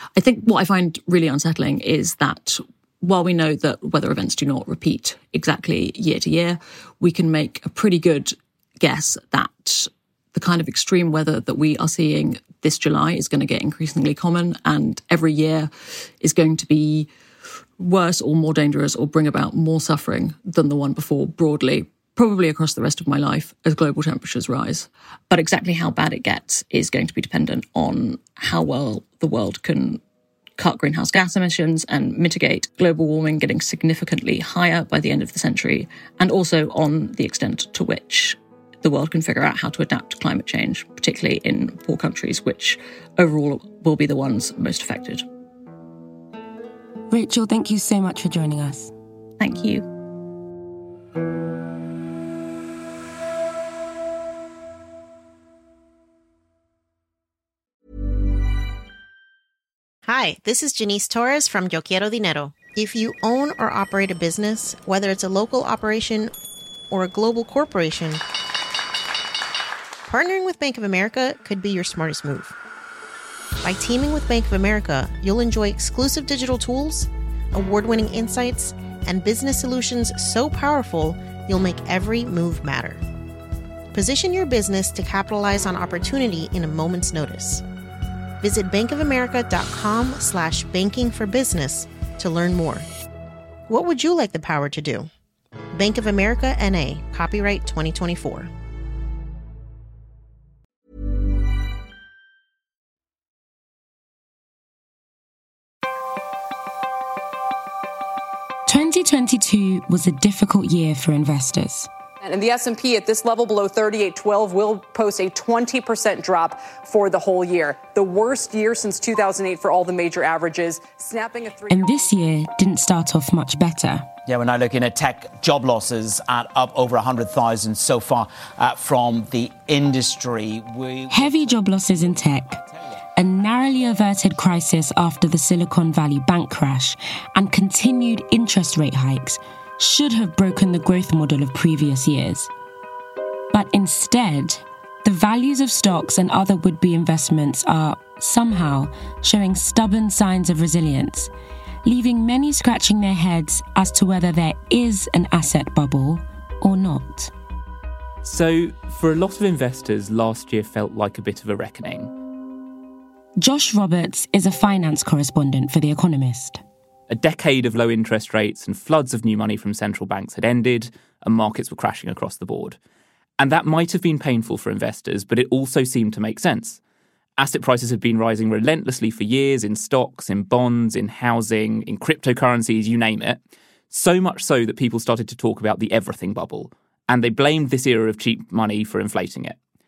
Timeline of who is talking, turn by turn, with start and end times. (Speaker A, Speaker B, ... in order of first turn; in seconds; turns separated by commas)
Speaker A: 0.1-17.1, Speaker A: 17.8-30.0, Speaker A: 30.6-45.2, Speaker B: 47.1-48.9, Speaker A: 49.4-49.9, Speaker C: 60.1-66.3, Speaker C: 66.9-68.2, Speaker C: 70.1-72.6, Speaker C: 73.6-83.0, Speaker C: 83.9-87.6, Speaker C: 88.4-92.9, Speaker C: 93.7-95.1, Speaker C: 95.7-98.5, Speaker B: 108.7-111.9, Speaker D: 112.2-122.1, Speaker B: 121.7-124.1, Speaker E: 124.3-131.4, Speaker B: 131.1-132.6, Speaker B: 133.2-142.5, Speaker B: 143.5-151.3, Speaker B: 151.8-157.3, Speaker F: 158.2-162.1, Speaker B: 163.4-166.6, Speaker F: 167.1-172.8, Speaker F: 173.4-176.8, Speaker F: 177.4-183.4, Speaker F: 183.9-189.6